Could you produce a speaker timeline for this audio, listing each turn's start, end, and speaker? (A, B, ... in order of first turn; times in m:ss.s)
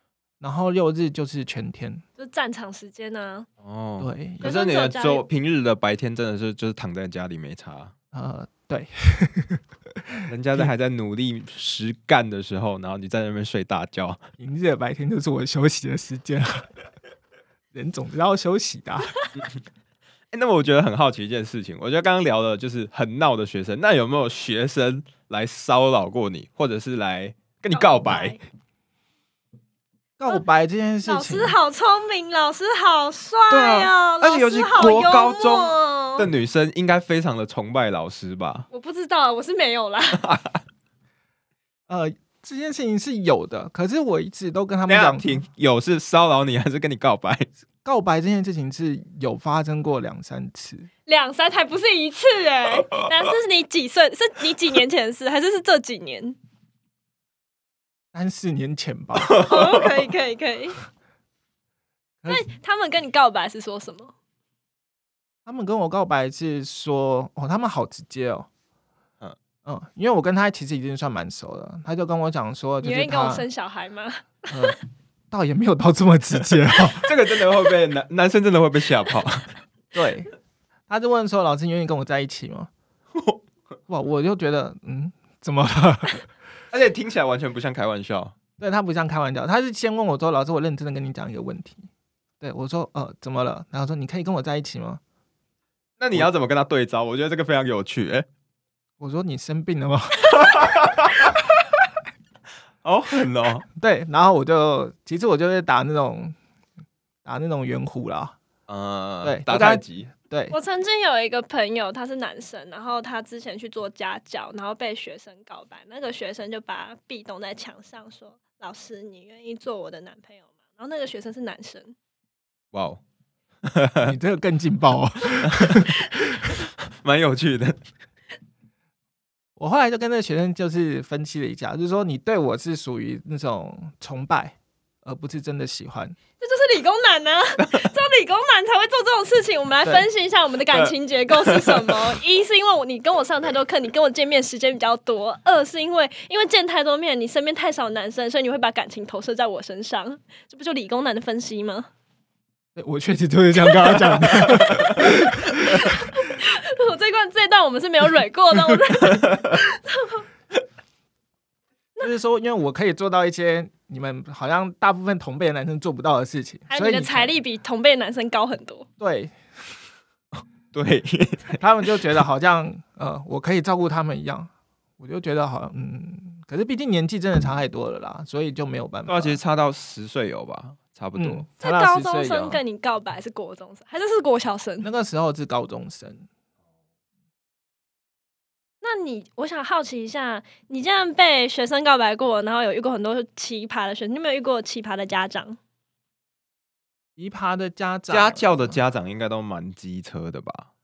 0:00.4-0:02.0 A
0:02.2-0:03.5 B
0:03.6-0:07.9 C
0:04.0-0:04.5 A
0:04.4-0:05.2 B
0:08.1-0:10.7 A
0:10.3-0:14.2 C
0:14.4-0:16.7 A
0:17.7-0:19.1 A
0:20.3-0:28.4 C
0:27.7-0:28.4 B
0:30.2-0:31.6 A
0:31.0-0:36.3 B
0:33.5-0:38.7 C
0:38.7-0:40.2 B
0:40.2-0:40.6 C
0:41.9-0:45.4 A
0:44.9-0:47.5 C
0:47.8-0:50.9 A
0:51.0-0:56.4 B
0:58.1-0:59.4 A
0:59.2-0:59.8 C
0:59.4-1:00.8 B
1:02.2-1:02.5 A
1:02.3-1:04.1 B
1:05.4-1:08.5 A
1:09.6-1:13.4 A
1:12.8-1:14.7 B
1:14.5-1:14.8 A
1:15.3-1:17.1 A
1:16.9-1:19.5 C
1:19.9-1:20.3 A
1:20.9-1:22.7 A
1:23.9-1:26.3 A
1:26.7-1:28.3 C
1:28.6-1:31.9 A
1:32.4-1:35.0 A
1:36.0-1:38.2 C
1:39.0-1:40.9 A
1:40.3-1:41.4 C
1:42.8-1:43.6 C
1:43.7-1:46.3 A
1:47.2-1:48.4 A
1:48.7-1:50.1 C
1:49.2-1:50.5 A
1:50.5-2:01.9 B
2:02.7-2:03.0 C
2:03.6-2:04.1 C
2:04.0-2:06.4 A
2:05.4-2:05.8 C
2:06.5-2:07.8 C
2:09.6-2:16.2 A
2:16.4-2:31.9 B
2:20.7-2:22.0 C
2:32.8-2:35.9 A
2:34.3-2:34.9 C
2:35.0-2:40.2 B
2:42.0-2:47.3 A
2:46.7-2:48.9 B
2:49.0-2:49.4 A
2:50.7-2:51.6 C
2:51.6-2:59.4 A
2:59.1-3:01.5 C
3:01.2-3:02.6 A
3:01.6-3:04.9 B
3:04.8-3:06.2 A
3:08.8-3:15.6 B
3:17.2-3:18.8 A
3:18.1-3:20.7 C